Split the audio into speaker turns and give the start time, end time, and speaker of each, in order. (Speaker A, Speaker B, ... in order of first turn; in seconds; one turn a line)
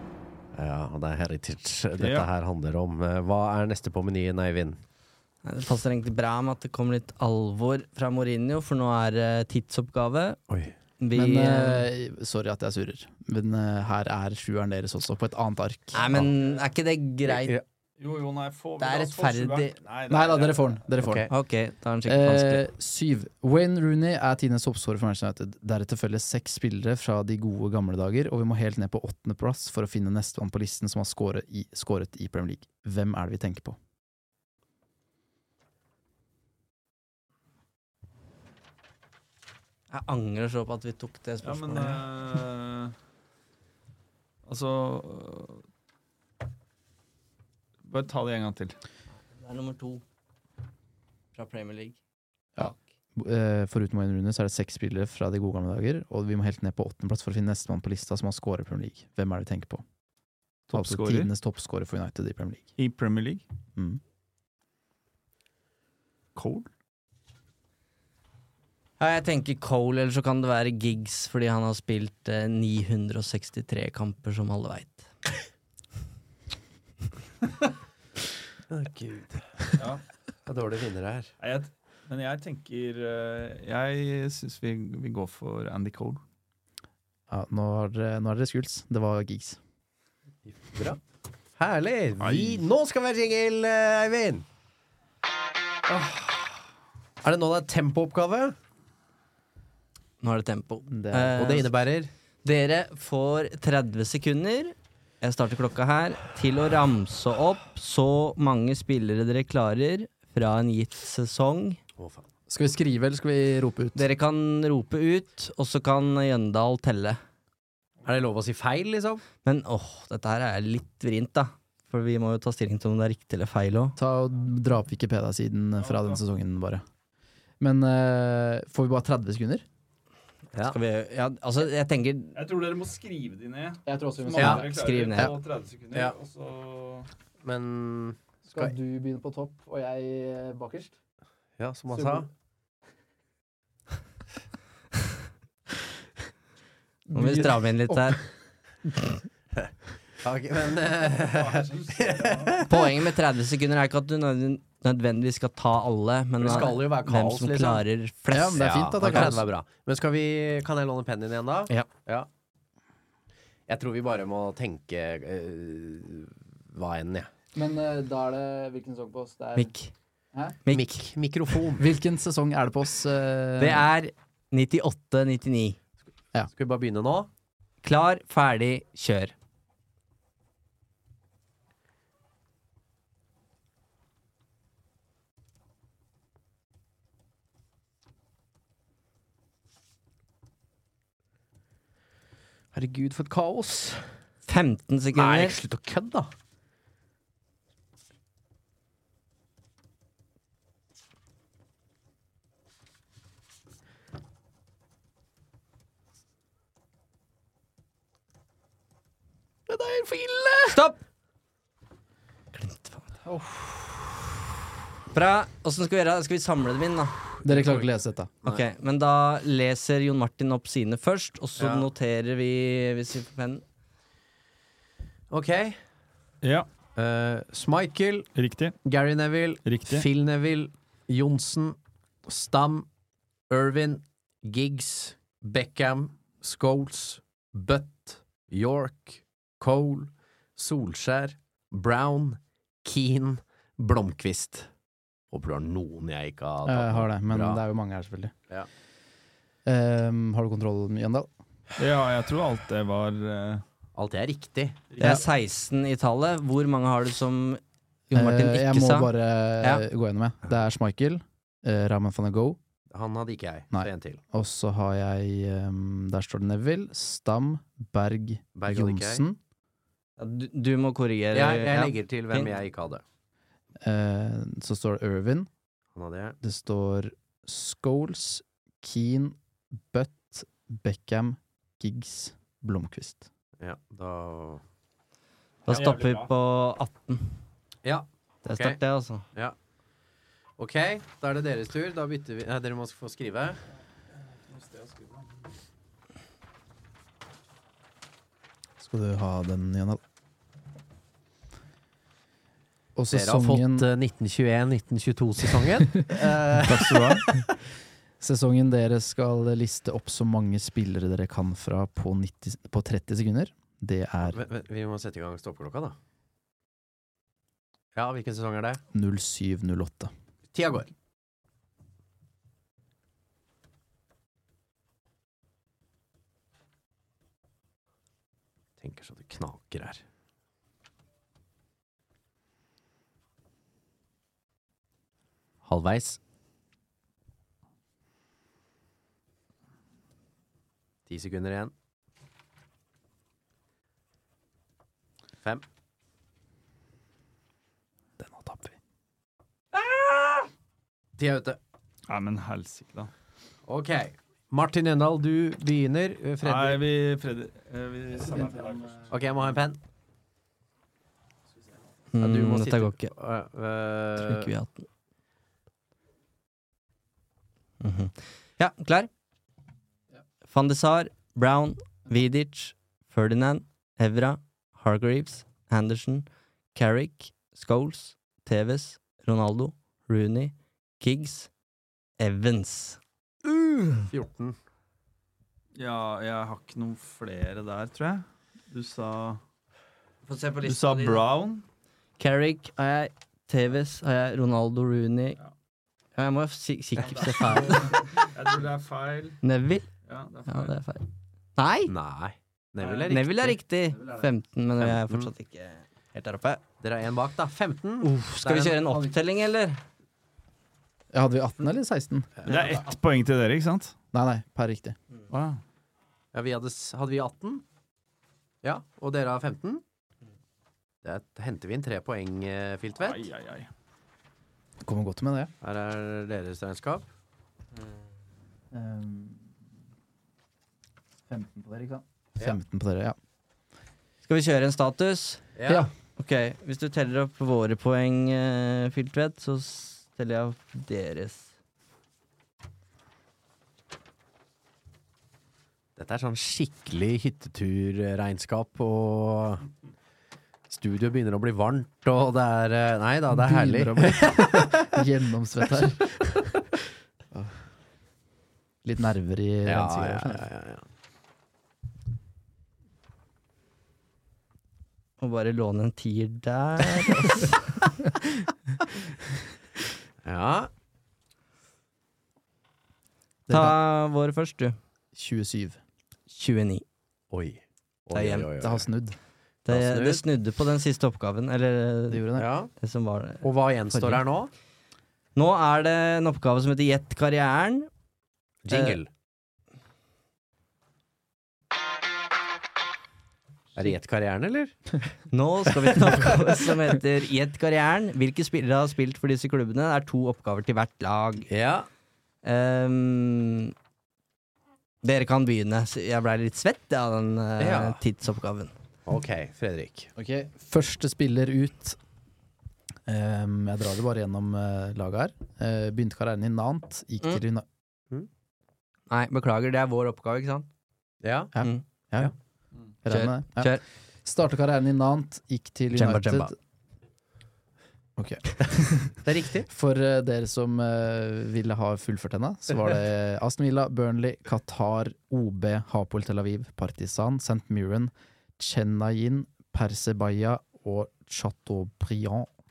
Speaker A: 0.5-4.8
Speaker B: 2.0-2.3
Speaker C: 5.4-10.4
Speaker A: 10.5-10.7
Speaker C: 11.0-11.9
Speaker D: 11.1-16.2
Speaker C: 15.9-17.6
Speaker A: 17.2-17.6
Speaker B: 18.0-20.8
Speaker C: 18.8-19.8
Speaker D: 20.1-21.3
Speaker A: 21.0-21.3
Speaker C: 21.3-22.6
Speaker D: 22.1-33.8
Speaker C: 39.9-42.0
Speaker B: 41.4-42.9
Speaker B: 44.5-45.6
Speaker B: 47.9-48.8
Speaker C: 49.4-50.0
Speaker C: 51.3-52.0
Speaker D: 52.6-59.8
Speaker B: 60.7-61.3
Speaker D: 60.7-62.7
Speaker B: 62.8-63.4
Speaker D: 63.8-64.0
Speaker B: 66.3-66.7
Speaker C: 69.0-75.1
Speaker A: 78.7-79.4
Speaker B: 79.8-80.0
Speaker A: 80.5-81.3
Speaker B: 81.4-86.2
Speaker D: 87.3-89.6
Speaker A: 90.5-91.0
Speaker A: 91.6-94.4
Speaker B: 92.2-92.6
Speaker A: 97.2-98.5
Speaker C: 100.2-101.7
Speaker D: 100.9-101.5
Speaker A: 101.3-102.1
Speaker C: 102.4-111.8
Speaker A: 112.0-112.2
Speaker D: 112.5-114.0
Speaker C: 113.9-117.2
Speaker A: 118.0-119.2
Speaker C: 119.4-123.9
Speaker D: 124.0-126.8
Speaker B: 125.8-126.2
Speaker D: 127.6-129.6
Speaker C: 130.6-132.4
Speaker B: 132.3-137.1
Speaker D: 133.9-134.7
Speaker A: 134.3-134.6
Speaker C: 134.4-135.3
Speaker A: 137.4-138.7
Speaker D: 138.5-140.9
Speaker A: 141.6-142.3
Speaker D: 141.9-142.2
Speaker D: 147.1-148.2
Speaker C: 147.1-148.2
Speaker A: 150.2-152.7
Speaker B: 151.2-152.6
Speaker C: 152.6-159.3
Speaker A: 156.4-157.8
Speaker D: 158.3-159.5
Speaker A: 158.5-162.3
Speaker A: 163.7-167.3
Speaker D: 167.5-169.7
Speaker C: 169.6-169.9
Speaker C: 170.6-171.0
Speaker A: 170.7-171.8
Speaker D: 171.8-173.9
Speaker C: 173.6-175.8
Speaker A: 176.5-177.3
Speaker C: 177.8-179.3
Speaker A: 192.7-194.2
Speaker C: 194.5-195.6
Speaker A: 195.1-196.3
Speaker A: 209.7-210.8
Speaker C: 210.7-211.0
Speaker C: 212.5-213.0
Speaker D: 213.2-213.8
Speaker C: 215.1-217.2
Speaker D: 217.4-218.3
Speaker C: 218.4-223.6
Speaker A: 221.6-221.9
Speaker A: 225.3-225.8
Speaker B: 226.4-226.7
Speaker A: 226.9-228.3
Speaker B: 228.3-228.8
Speaker A: 228.8-232.9
Speaker B: 229.6-230.1
Speaker A: 233.5-244.7
Speaker A: 245.3-247.6
Speaker D: 246.7-248.3
Speaker D: 249.7-251.3
Speaker B: 251.8-253.6
Speaker A: 253.9-254.8
Speaker B: 254.9-255.2
Speaker C: 255.0-257.6
Speaker D: 258.1-262.6
Speaker C: 258.1-259.8
Speaker A: 262.9-264.2
Speaker D: 263.7-269.4
Speaker A: 268.6-269.2
Speaker C: 270.2-272.5
Speaker A: 271.3-273.0
Speaker D: 273.8-275.5
Speaker A: 275.9-276.4
Speaker D: 276.4-279.4
Speaker D: 279.9-283.3
Speaker A: 283.6-284.6
Speaker C: 285.6-287.4
Speaker B: 285.7-286.3
Speaker A: 287.8-288.8
Speaker C: 288.4-289.2
Speaker A: 290.6-293.6
Speaker B: 294.5-295.3
Speaker D: 298.8-300.0
Speaker D: 302.9-303.9
Speaker A: 303.1-307.4
Speaker D: 306.7-307.4
Speaker D: 308.2-314.4
Speaker A: 314.2-316.0
Speaker A: 317.9-318.8
Speaker D: 318.9-320.1
Speaker A: 320.5-320.9
Speaker A: 328.8-330.0
Speaker A: 335.6-336.2
Speaker A: 341.1-341.7
Speaker D: 348.2-348.7
Speaker A: 351.2-351.6
Speaker B: 352.1-353.1
Speaker A: 353.6-356.8
Speaker B: 356.4-359.1
Speaker D: 358.3-358.9
Speaker A: 359.1-359.8
Speaker C: 362.1-363.1
Speaker A: 362.2-364.5
Speaker C: 364.2-364.9
Speaker C: 367.8-369.1
Speaker C: 370.5-381.5
Speaker C: 382.2-384.1
Speaker A: 384.1-384.6
Speaker B: 385.7-389.4
Speaker C: 390.2-391.2
Speaker B: 390.6-391.6
Speaker C: 392.2-395.4
Speaker C: 396.1-398.2
Speaker B: 397.0-399.4
Speaker C: 399.4-399.9
Speaker B: 400.1-400.8
Speaker C: 400.4-401.9
Speaker A: 401.9-403.6
Speaker B: 402.8-403.1
Speaker C: 403.1-406.6
Speaker A: 404.8-405.3
Speaker A: 406.8-409.0
Speaker C: 408.0-409.8
Speaker D: 411.1-412.3
Speaker B: 412.4-413.9
Speaker D: 414.1-415.0
Speaker B: 415.3-415.6
Speaker A: 416.3-417.6
Speaker A: 418.6-419.8
Speaker A: 421.0-423.3
Speaker B: 422.9-423.7
Speaker D: 424.8-425.5
Speaker A: 425.6-427.1
Speaker D: 428.7-429.5
Speaker D: 431.3-433.1
Speaker C: 434.2-435.4
Speaker A: 435.5-435.9
Speaker D: 435.6-435.9
Speaker C: 436.2-441.5
Speaker A: 445.9-449.6
Speaker A: 450.7-455.0
Speaker D: 453.3-456.4
Speaker D: 458.8-460.4
Speaker A: 459.6-460.8
Speaker C: 465.2-467.9
Speaker A: 470.2-470.7
Speaker D: 473.5-473.8
Speaker C: 473.5-474.8
Speaker D: 475.1-475.8
Speaker C: 476.3-476.8
Speaker A: 477.3-478.9
Speaker C: 478.1-478.5
Speaker D: 478.6-479.2
Speaker C: 479.6-482.2
Speaker A: 479.7-480.2
Speaker D: 482.1-482.5
Speaker A: 482.3-482.7
Speaker C: 482.8-484.2
Speaker A: 483.4-484.5
Speaker C: 485.3-487.9
Speaker A: 488.6-489.1
Speaker C: 488.7-489.0
Speaker A: 493.7-494.8
Speaker C: 495.3-501.5
Speaker A: 496.0-496.3
Speaker A: 501.5-501.9
Speaker C: 502.4-503.7
Speaker C: 505.0-508.7
Speaker A: 507.6-508.0
Speaker A: 509.1-510.1
Speaker D: 510.2-512.0
Speaker D: 513.1-517.6
Speaker C: 519.1-520.7
Speaker A: 521.2-521.5
Speaker D: 521.5-522.3
Speaker D: 523.0-526.5
Speaker C: 523.1-523.8
Speaker C: 525.9-526.5
Speaker D: 528.2-529.1
Speaker A: 529.2-529.7
Speaker D: 529.7-542.5